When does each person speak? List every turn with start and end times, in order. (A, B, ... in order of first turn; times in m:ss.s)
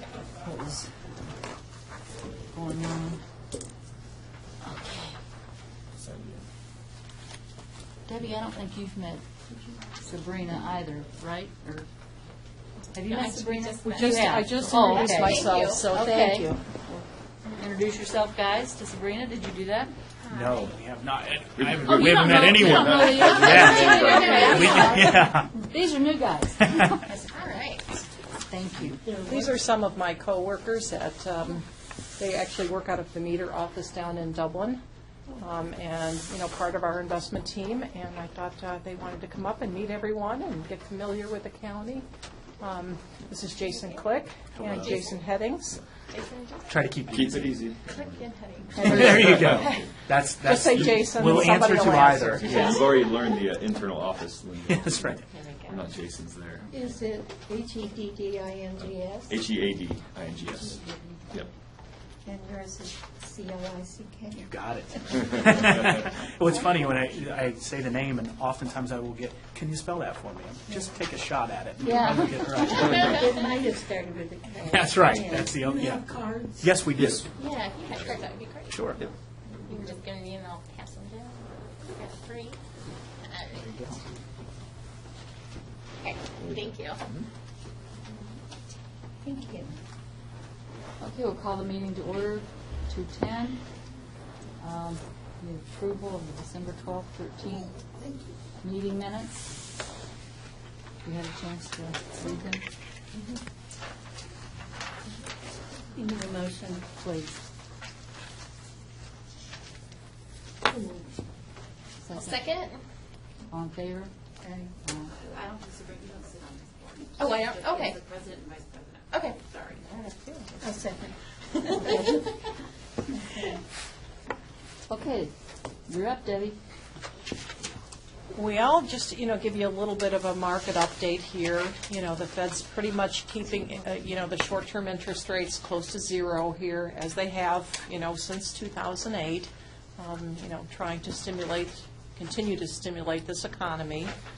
0:00.4-0:01.0 A
0:02.5-0:03.2 A
0:04.6-0:05.1 A
0:06.0-0:06.4 B
0:08.1-0:09.2 A
0:10.0-0:11.8 A
0:12.9-0:19.9 A
0:13.6-0:16.6 C
0:14.9-0:15.8 D
0:20.3-0:25.5 E
0:21.6-0:23.6 B
0:21.9-0:27.0 A
0:22.9-0:25.1 C
0:23.6-0:24.6 D
0:27.1-0:28.0 D
0:28.5-0:29.0 A
0:29.0-0:29.6 F
0:29.2-0:31.6 C
0:32.2-0:34.8 C
0:35.4-0:42.0 C
0:42.6-0:45.8 C
0:44.5-0:45.2 B
0:44.6-0:44.9 E
0:46.1-0:46.7 D
0:46.7-0:47.6 E
0:47.1-0:51.6 B
0:47.9-0:49.2 D
0:48.6-0:49.8 C
0:48.7-0:52.9 E
0:50.4-0:52.9 C
0:52.3-0:55.0 B
0:54.6-0:55.2 E
0:55.0-0:55.3 D
0:55.3-0:55.7 C
0:55.6-0:56.8 B
0:56.7-0:59.4 F
0:58.8-1:00.8 B
1:00.8-1:01.2 F
1:02.2-1:04.5 F
1:04.4-1:13.0 E
1:11.8-1:13.0 A
1:12.7-1:16.8 F
1:14.6-1:17.3 E
1:17.0-1:17.2 B
1:17.4-1:18.7 D
1:18.7-1:19.0 E
1:19.7-1:20.0 F
1:19.8-1:22.6 D
1:23.2-1:23.7 D
1:23.7-1:24.0 E
1:26.0-1:27.0 D
1:26.4-1:27.2 B
1:29.2-1:29.8 F
1:31.0-1:33.6 A
1:34.6-1:37.7 A
1:38.0-1:38.3 F
1:38.6-1:39.4 A
1:41.0-1:42.6 A
1:45.9-1:46.8 F
1:47.0-1:47.4 A
1:50.6-1:51.1 F
1:52.0-1:52.5 A
1:52.3-1:52.8 D
1:53.5-1:54.1 A
1:54.4-1:54.7 F
1:54.8-2:00.5 A
1:57.2-1:57.9 D
1:59.7-2:00.4 C
2:00.6-2:02.4 F
2:01.8-2:02.2 A
2:04.9-2:05.3 A
2:05.9-2:06.6 A
2:08.3-2:24.1 C